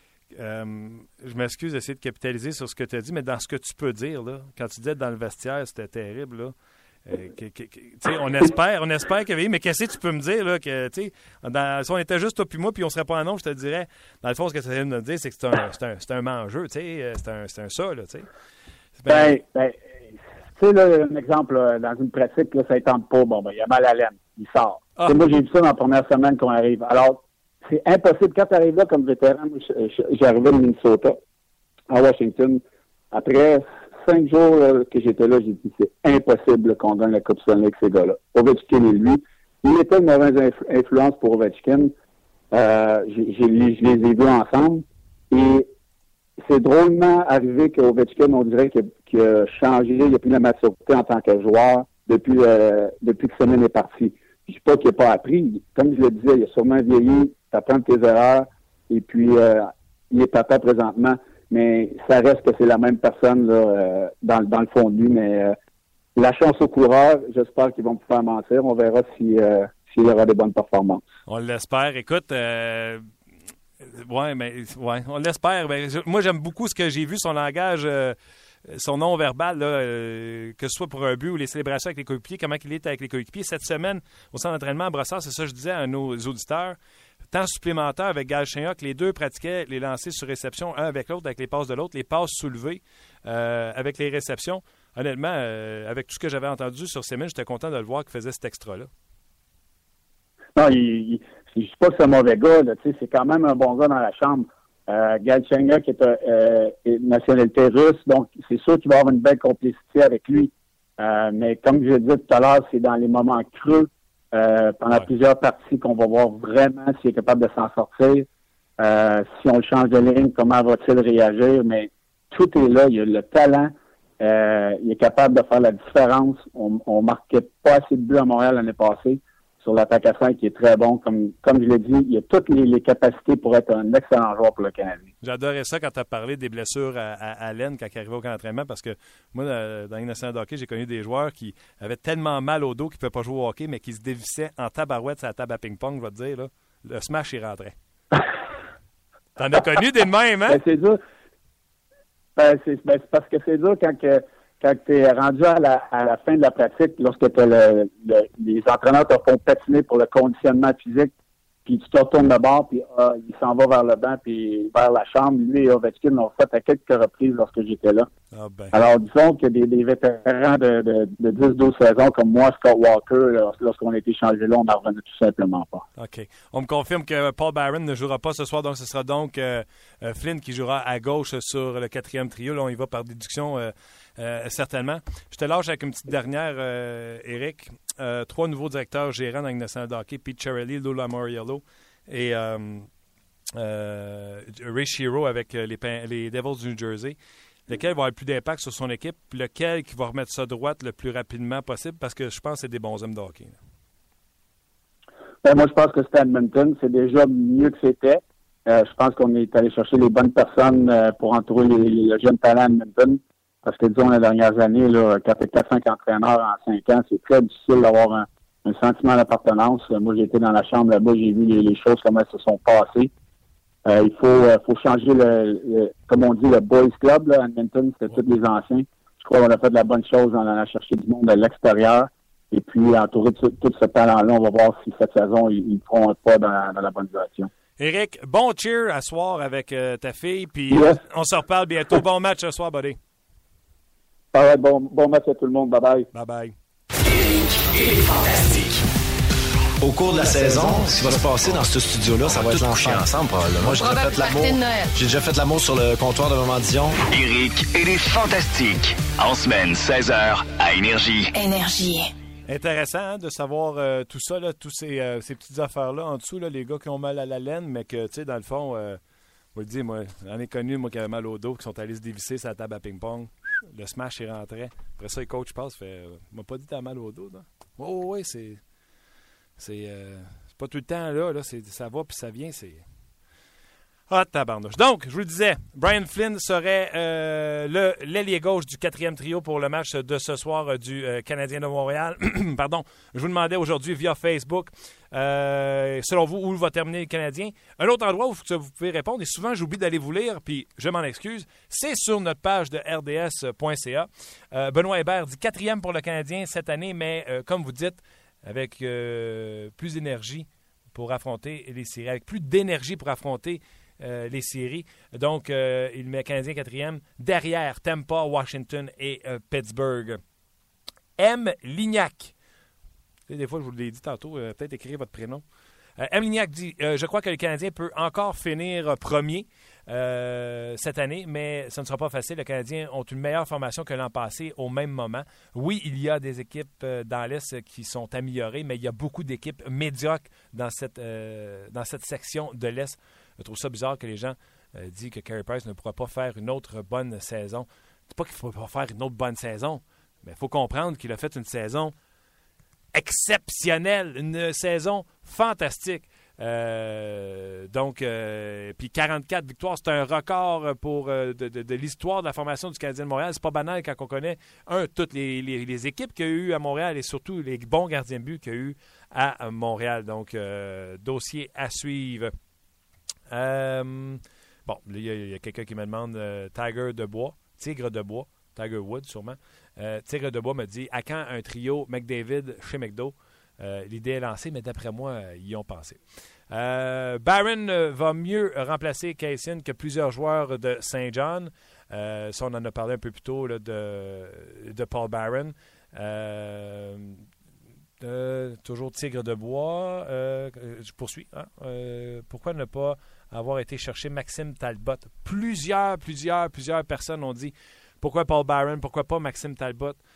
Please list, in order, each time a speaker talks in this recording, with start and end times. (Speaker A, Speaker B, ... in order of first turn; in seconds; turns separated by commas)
Speaker A: 0.3-6.5, Speaker A: 7.1-18.2, Speaker A: 19.0-19.4, Speaker B: 19.1-19.8, Speaker B: 20.6-31.2, Speaker B: 31.9-41.9, Speaker B: 42.5-45.7, Speaker B: 46.4-65.5, Speaker B: 66.2-71.0, Speaker A: 71.3-73.0, Speaker A: 73.8-86.8, Speaker A: 87.3-98.9, Speaker B: 100.5-118.3, Speaker B: 118.8-135.1, Speaker A: 135.2-147.8, Speaker A: 149.4-150.6, Speaker B: 150.5-151.0, Speaker B: 152.3-161.1, Speaker B: 161.7-168.1, Speaker A: 168.3-168.7, Speaker B: 168.7-175.8, Speaker A: 176.0-192.9, Speaker A: 193.5-197.2, Speaker A: 197.7-203.6, Speaker B: 205.4-223.1, Speaker B: 223.8-237.5, Speaker A: 237.8-243.0, Speaker B: 244.3-246.1, Speaker A: 246.1-246.5, Speaker C: 247.1-248.8, Speaker D: 249.8-257.0, Speaker C: 252.3-253.0, Speaker E: 253.7-254.9, Speaker C: 257.0-261.3, Speaker E: 261.3-262.1, Speaker A: 262.5-269.0, Speaker A: 269.5-278.6, Speaker A: 279.6-282.8, Speaker A: 284.1-320.2, Speaker A: 321.2-322.3, Speaker A: 323.3-325.4, Speaker A: 326.0-351.9, Speaker A: 352.9-372.3, Speaker A: 373.3-397.2, Speaker A: 398.0-410.0